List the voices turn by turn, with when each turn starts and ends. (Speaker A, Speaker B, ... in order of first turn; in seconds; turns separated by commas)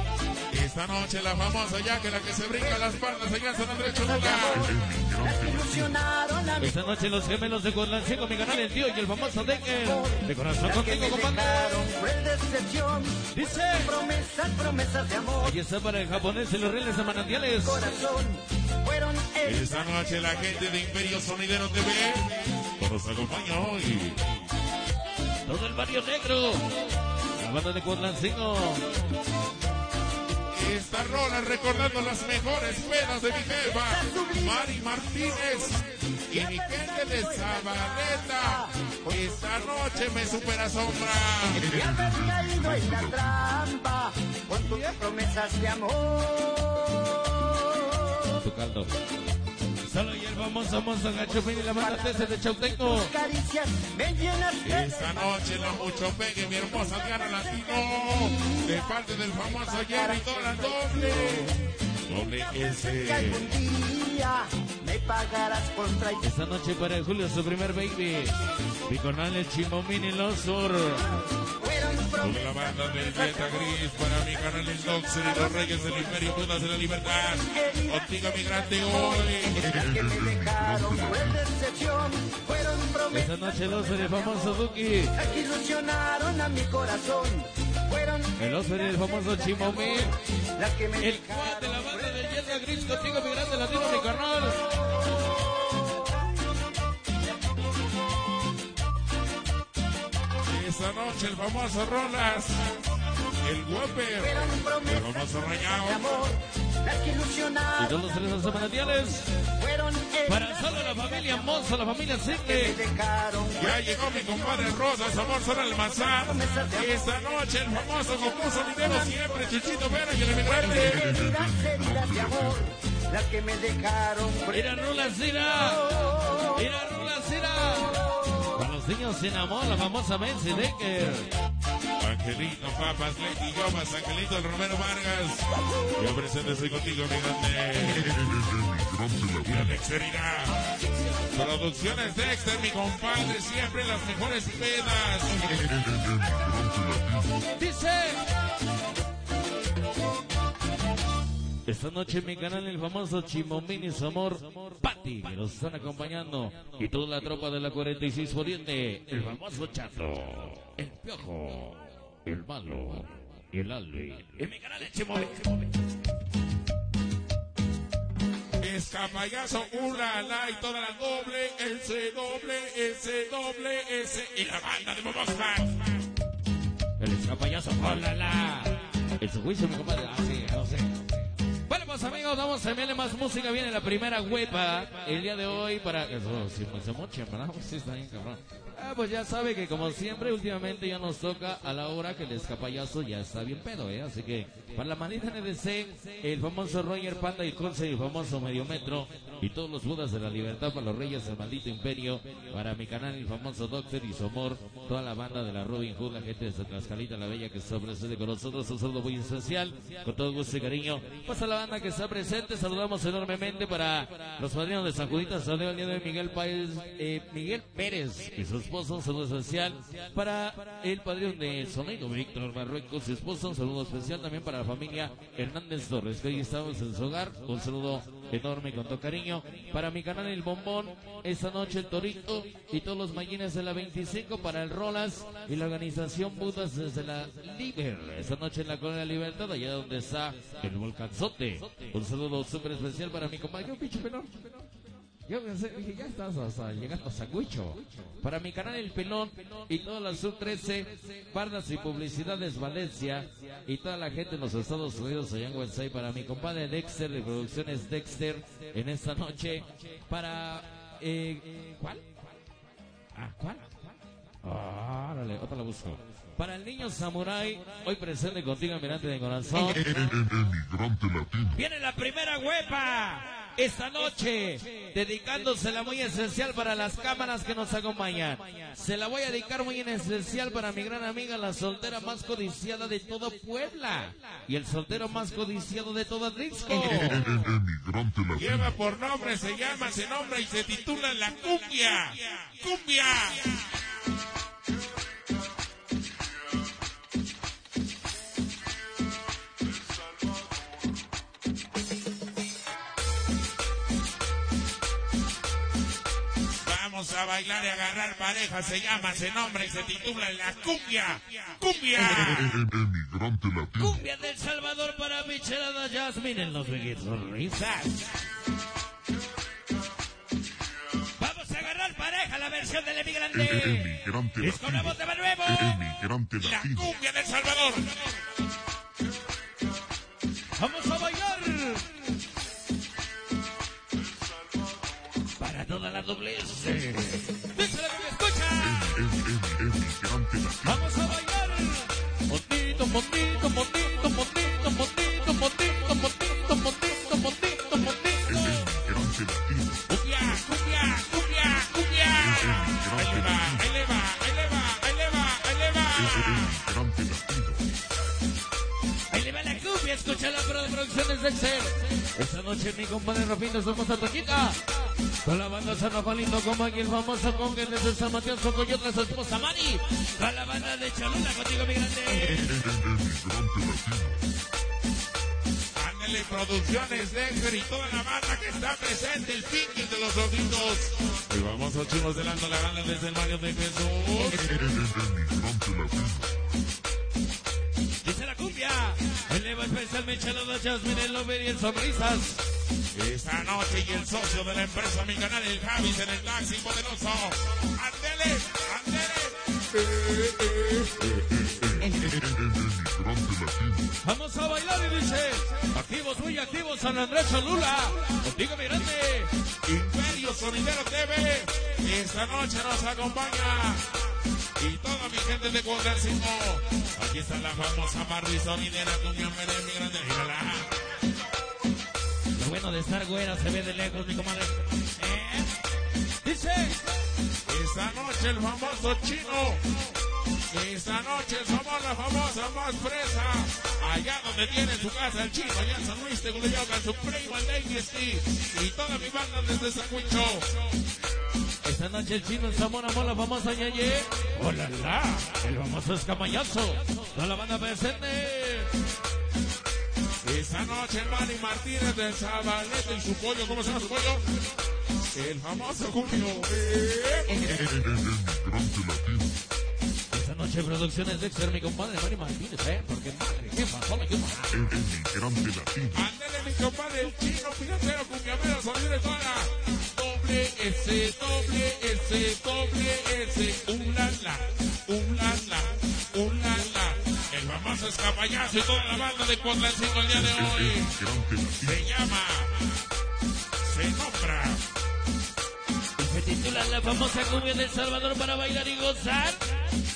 Speaker A: 0.5-4.6, Speaker B: 4.0-6.8, Speaker C: 4.5-6.0, Speaker D: 6.6-11.7, Speaker B: 9.8-15.6, Speaker D: 13.3-13.9, Speaker D: 15.4-17.8, Speaker B: 17.6-19.9, Speaker A: 19.4-24.2, Speaker D: 25.4-26.6, Speaker D: 27.4-28.8, Speaker A: 30.5-41.6, Speaker B: 33.8-35.1, Speaker B: 36.3-38.7, Speaker C: 41.5-43.5, Speaker B: 41.5-48.4, Speaker D: 44.6-45.0, Speaker D: 48.4-48.9, Speaker D: 49.9-53.1, Speaker B: 51.5-55.9, Speaker A: 54.6-61.5, Speaker B: 58.0-61.5, Speaker A: 62.1-63.6, Speaker B: 63.0-66.2, Speaker D: 66.2-68.4, Speaker D: 68.9-71.1, Speaker B: 71.6-73.7, Speaker A: 72.2-79.6, Speaker B: 75.5-76.1, Speaker B: 77.5-92.9, Speaker C: 79.5-81.5, Speaker D: 83.1-85.1, Speaker D: 88.4-90.1, Speaker D: 91.0-94.6, Speaker A: 100.5-102.6, Speaker A: 103.4-106.1, Speaker B: 104.2-108.0, Speaker D: 107.8-109.3, Speaker B: 109.5-111.8, Speaker D: 110.3-112.8, Speaker B: 112.4-113.8, Speaker A: 113.6-121.0, Speaker B: 116.0-117.2, Speaker B: 118.8-119.3, Speaker B: 120.5-126.6, Speaker C: 120.7-122.7, Speaker D: 124.5-125.9, Speaker D: 126.5-128.0, Speaker D: 128.6-131.3, Speaker A: 132.0-138.1, Speaker C: 137.8-139.8, Speaker A: 139.4-140.6, Speaker A: 141.3-145.3, Speaker C: 145.4-147.4, Speaker D: 147.6-148.2, Speaker D: 151.7-165.8, Speaker A: 168.6-176.0, Speaker D: 177.0-180.9, Speaker D: 181.7-244.5, Speaker D: 245.3-262.1, Speaker D: 263.1-263.8, Speaker D: 264.4-269.8, Speaker C: 269.6-271.6, Speaker D: 271.6-287.2, Speaker C: 286.7-288.7, Speaker A: 288.4-293.6, Speaker A: 306.6-312.5, Speaker C: 312.0-314.0, Speaker D: 313.8-318.1, Speaker D: 321.2-325.8, Speaker C: 323.3-326.9, Speaker A: 326.4-327.9, Speaker D: 330.6-332.0, Speaker D: 335.4-339.0, Speaker C: 338.6-341.0, Speaker D: 340.6-348.5, Speaker C: 348.2-349.8, Speaker A: 349.9-356.6, Speaker C: 352.2-353.7, Speaker C: 355.9-357.6, Speaker D: 359.1-364.6, Speaker D: 365.2-372.4, Speaker C: 372.1-374.2, Speaker A: 375.8-384.4, Speaker C: 384.3-386.3, Speaker D: 388.0-392.4, Speaker A: 392.9-401.8, Speaker C: 401.8-404.0, Speaker D: 404.0-409.3, Speaker A: 409.6-413.8, Speaker A: 414.6-420.7, Speaker D: 422.4-425.5, Speaker D: 426.2-426.8, Speaker A: 427.5-429.6, Speaker A: 430.5-440.5, Speaker D: 441.6-448.7, Speaker A: 450.2-454.2, Speaker A: 455.1-457.4, Speaker C: 457.3-459.4, Speaker D: 460.1-464.7, Speaker C: 464.5-466.0, Speaker A: 465.9-480.9, Speaker C: 480.1-481.9, Speaker A: 481.6-482.6, Speaker A: 483.6-484.6, Speaker D: 486.0-489.4